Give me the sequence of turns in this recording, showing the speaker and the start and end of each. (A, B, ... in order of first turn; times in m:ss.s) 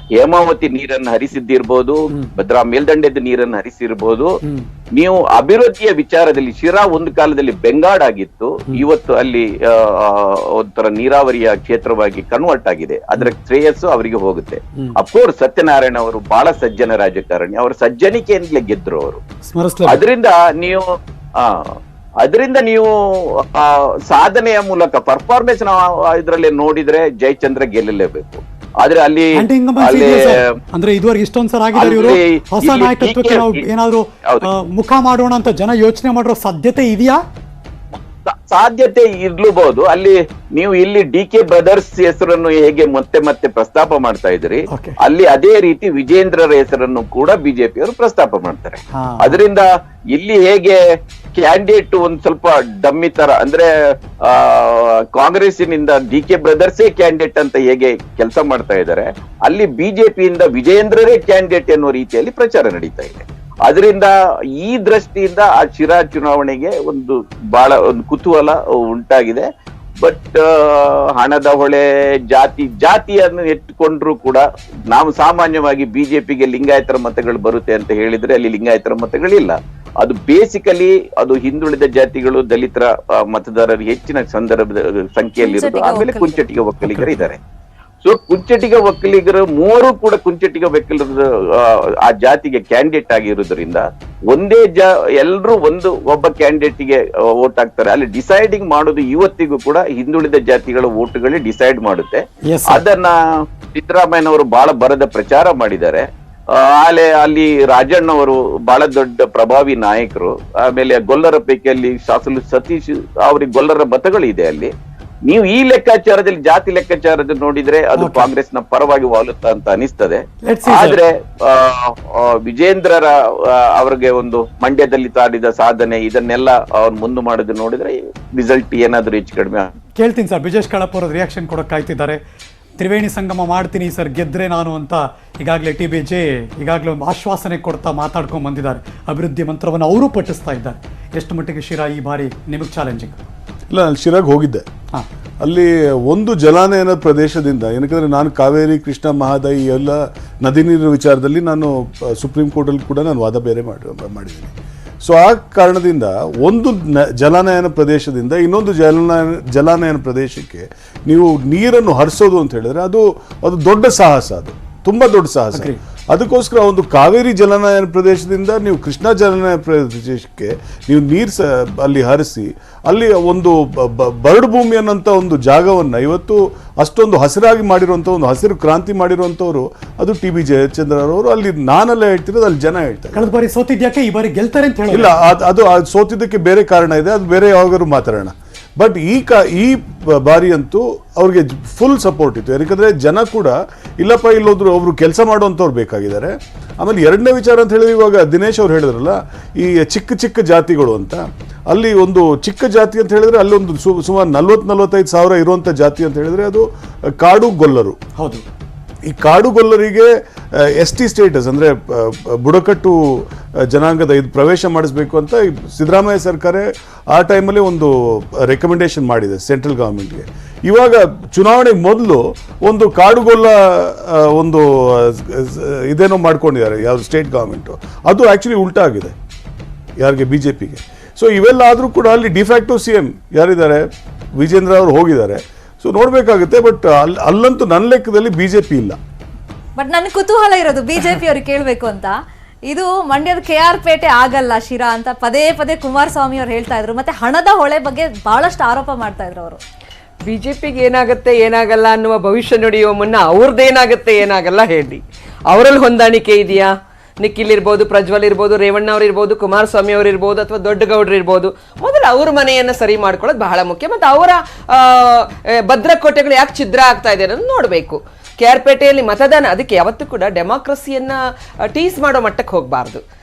0:00.2-0:04.4 A
0:05.0-0:19.2 A
0:19.5-0:20.0 B
0:19.8-0:20.9 A
0:22.2-0:30.4 A
0:29.4-0:37.2 B
0:31.7-0:33.6 A
0:37.9-0:50.8 A
0:44.7-0:45.0 B
0:48.9-0:49.4 B
0:51.4-0:53.7 A
0:54.2-1:09.5 A
1:10.0-1:27.4 A
1:25.4-1:26.4 C
1:26.8-1:27.2 B
1:28.0-1:43.2 A
1:42.4-1:42.8 B
1:43.7-1:54.7 A
1:55.3-2:09.7 A
1:58.0-1:58.3 B
2:00.4-2:01.0 B
2:10.0-2:12.2 B
2:12.8-2:23.2 B
2:23.7-2:24.7 D
2:25.4-2:34.5 D
2:35.0-3:03.3 D
3:03.1-3:05.2 B
3:04.9-3:26.7 D
3:27.2-3:28.0 D
3:28.2-3:28.4 B
3:29.1-3:49.2 D
3:50.0-3:59.0 D
3:59.8-4:02.2 C
4:02.7-4:09.6 C
4:10.3-4:31.2 E
4:31.7-4:33.0 E